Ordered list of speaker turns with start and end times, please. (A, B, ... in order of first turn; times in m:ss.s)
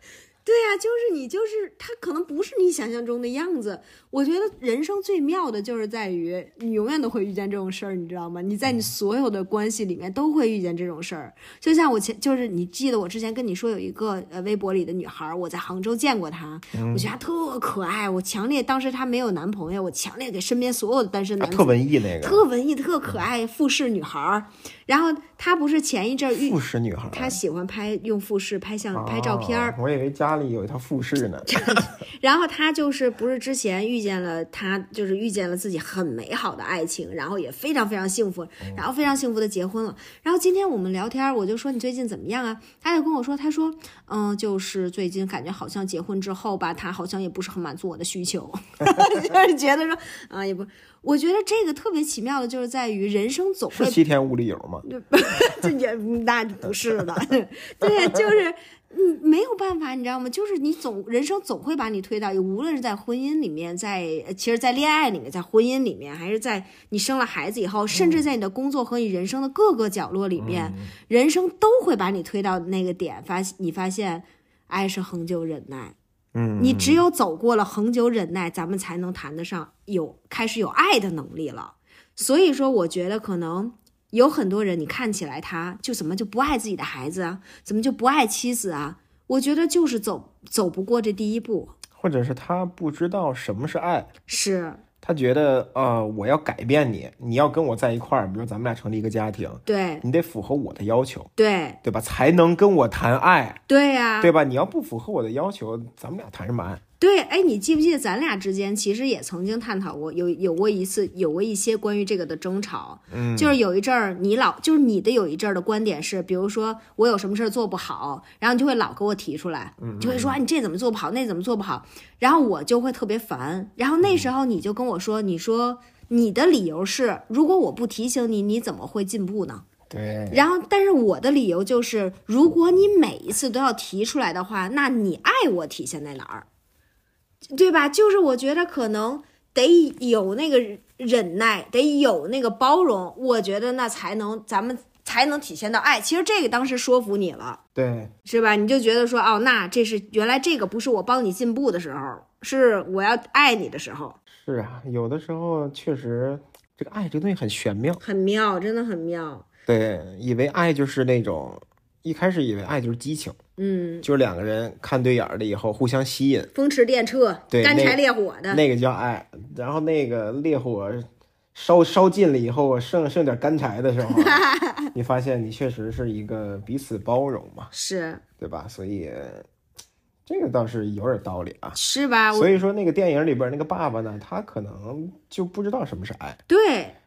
0:00.4-0:26.6 A
0:16.7-0:17.1 B
0:21.4-0:22.4 B
0:26.4-0:27.4 B
0:27.1-0:29.8 A
0:28.9-0:31.9 B
0:31.5-0:54.0 A
0:53.7-0:54.8 B
0:54.8-1:15.9 A
0:57.8-0:58.2 B
1:07.9-1:08.2 B
1:10.4-1:10.9 B
1:16.3-1:17.0 B
1:16.6-1:31.7 A
1:32.0-1:34.1 B
1:34.3-1:34.8 A
1:35.0-1:41.3 B
1:39.6-1:40.0 A
1:41.4-1:41.8 A
1:41.8-1:43.6 B
1:43.7-1:44.3 A
1:44.2-1:46.8 B
1:47.0-2:09.6 A
1:53.1-1:53.6 B
1:59.8-2:00.4 B
2:09.9-2:10.4 B
2:10.3-2:16.4 A
2:17.5-2:27.6 A
2:27.8-2:28.1 B
2:28.2-2:34.2 A
2:34.3-2:38.0 B
2:38.0-2:39.4 A
2:39.7-2:43.4 B
2:43.6-2:44.0 A
2:44.0-2:46.5 B
2:46.5-2:48.6 A
2:47.5-2:54.4 B
2:54.1-2:54.9 A
2:54.9-2:57.7 B
2:57.7-2:58.2 A
2:58.4-2:59.4 B
3:00.2-3:01.8 B
3:01.8-3:02.6 A
3:02.3-3:06.4 B
3:06.5-3:07.0 A